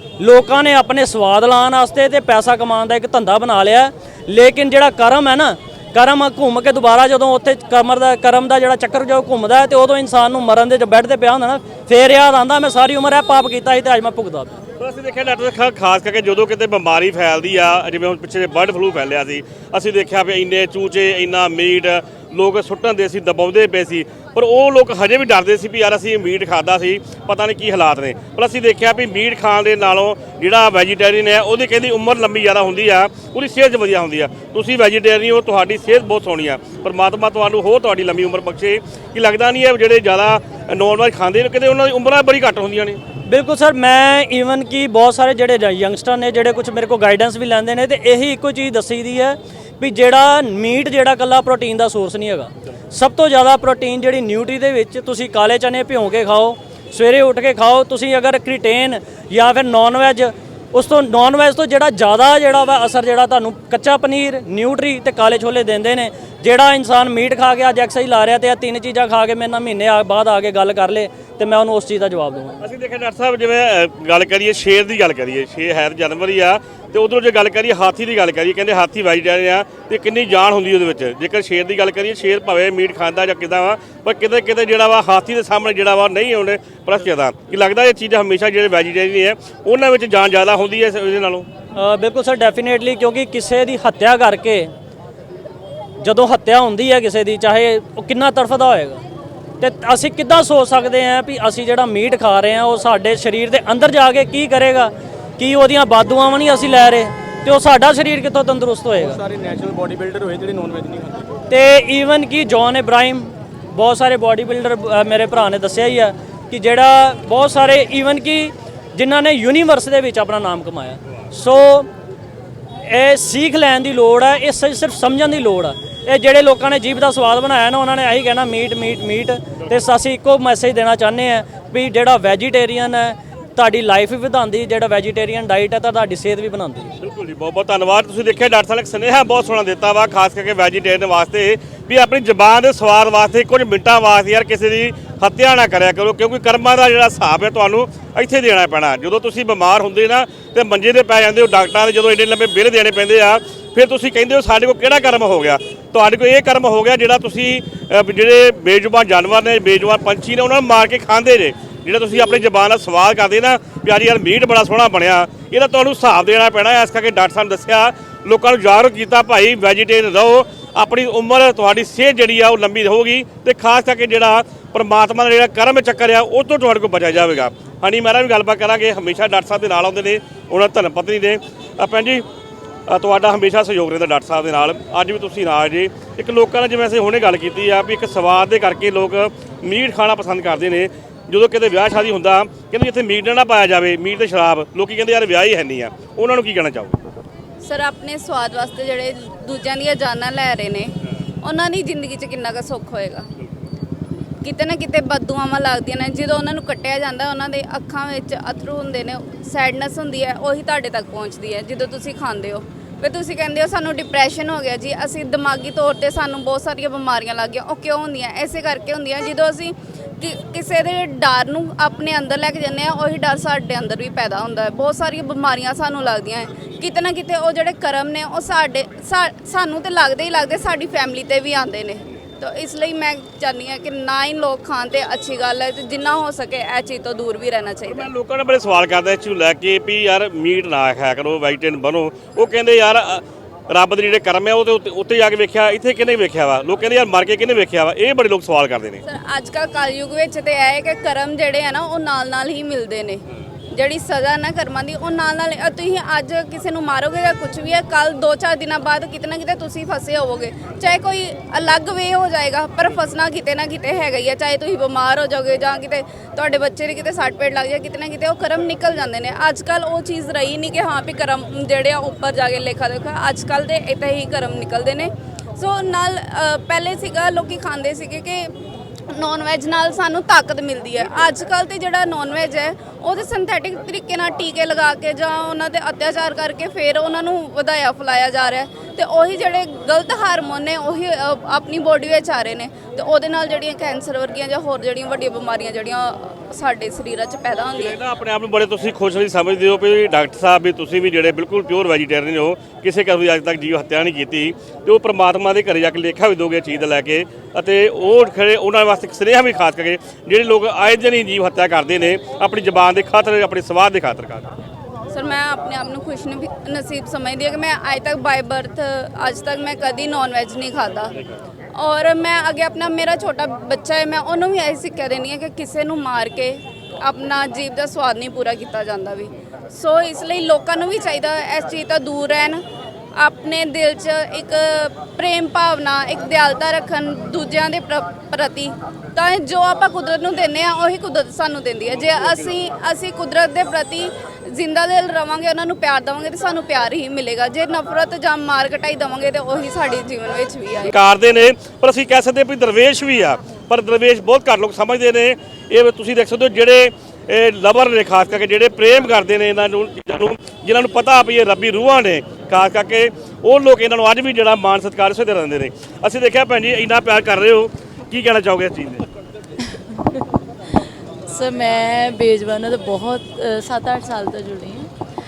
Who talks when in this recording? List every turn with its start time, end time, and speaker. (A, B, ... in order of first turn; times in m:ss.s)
0:00.2-0:14.6 A
0:14.8-0:43.0 B
0:43.2-1:12.6 A
1:12.6-1:31.5 B
1:31.8-1:34.7 A
1:36.0-1:39.0 A
1:39.6-1:49.2 A
1:49.0-1:51.3 C
1:51.5-2:01.9 A
2:02.8-2:16.9 A
2:17.0-3:02.2 B
3:02.9-3:17.0 B
3:17.6-3:23.3 D
3:24.4-3:58.1 D
3:57.9-4:09.0 B
4:09.1-4:38.5 D
4:39.1-4:58.0 D
4:57.7-5:14.5 B
5:15.1-5:21.2 D
5:21.8-5:32.6 D
5:33.2-5:50.9 D
5:50.9-6:09.1 B
6:11.3-6:14.9 E